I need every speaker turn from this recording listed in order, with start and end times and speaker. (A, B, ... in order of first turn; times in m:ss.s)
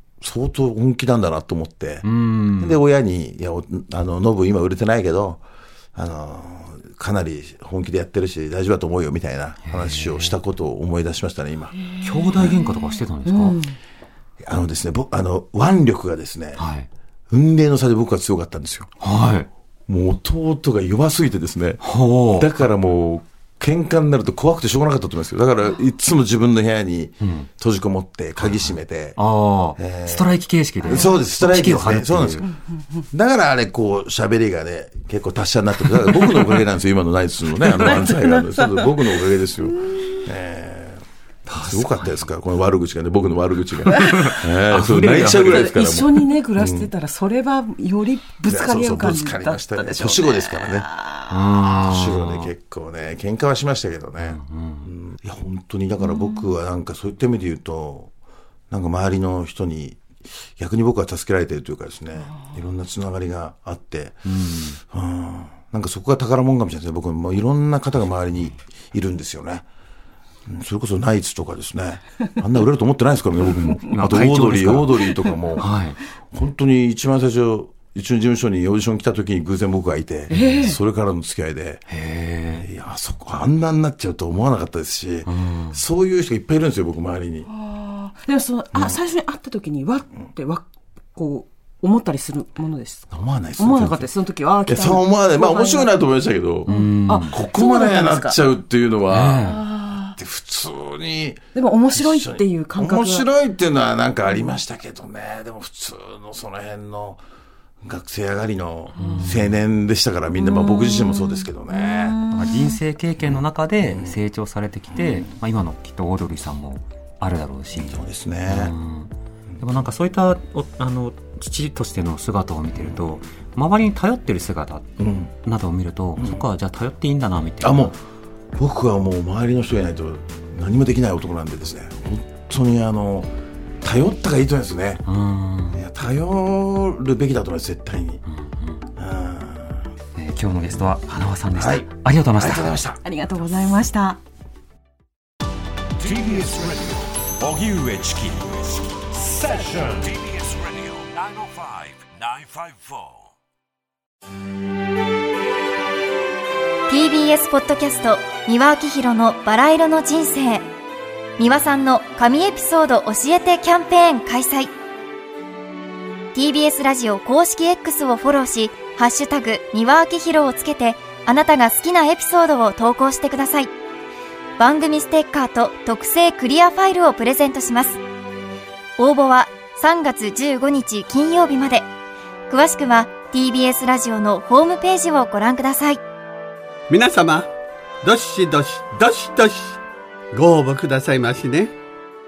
0:00.2-0:05.4 A
0:02.0-0:02.8 B
0:06.0-0:11.8 A
0:09.7-0:10.4 B
0:12.0-0:13.6 B
0:13.2-0:13.7 C
0:14.4-0:16.6 A
0:16.6-0:16.9 B
0:17.3-0:18.9 A
0:19.0-0:19.5 B
0:19.9-0:21.8 A
0:21.8-0:22.7 B
0:22.3-0:29.2 A
0:27.2-0:27.5 B
0:28.4-0:32.5 B
0:29.8-0:32.5 A
0:33.1-0:41.0 A
0:41.5-0:42.3 B
0:41.6-0:46.9 A
0:43.9-0:45.8 B
0:45.4-0:51.6 C
0:48.4-0:50.9 A
0:51.3-0:52.5 B
0:51.7-0:58.1 A
0:54.2-0:54.9 B
0:56.0-0:56.5 C
0:58.7-1:00.0 A
1:00.6-1:04.3 A
1:04.3-1:04.8 B
1:04.9-1:09.7 A
1:10.5-1:15.7 A
1:13.9-1:16.0 B
1:16.3-1:21.8 A
1:20.3-1:20.8 C
1:21.9-1:22.7 B
1:22.5-1:27.5 A
1:25.2-1:25.8 B
1:27.5-1:33.0 C
1:28.7-1:29.0 A
1:33.1-1:34.1 A
1:33.6-1:35.9 C
1:34.7-1:39.6 A
1:36.7-1:38.4 C
1:36.7-1:37.4 B
1:39.1-1:39.6 B
1:39.4-1:40.2 C
1:40.2-1:47.2 A
1:41.6-1:43.3 C
1:47.8-1:52.2 A
1:49.0-1:49.6 B
1:49.0-1:49.3 C
1:50.4-1:52.8 C
1:52.3-2:04.9 B
1:53.2-1:54.2 A
1:55.0-1:55.3 A
1:57.7-1:58.7 A
2:05.0-2:05.3 A
2:05.4-2:08.0 B
2:06.2-2:06.4 A
2:07.6-2:08.0 A
2:08.6-2:13.3 A
2:13.8-2:15.0 A
2:15.1-2:15.8 B
2:15.7-2:18.2 A
2:18.3-2:18.8 B
2:19.0-2:19.9 A
2:20.2-2:22.7 B
2:21.6-2:23.0 A
2:23.0-2:24.2 C
2:26.0-2:33.3 D
2:36.9-2:40.7 E
2:41.4-2:44.7 E
2:46.3-2:53.7 E
2:54.6-2:58.0 E
2:59.0-3:01.9 E
3:02.5-3:06.0 E
3:06.9-3:07.5 F
3:08.0-3:09.8 F
3:10.3-3:11.7 F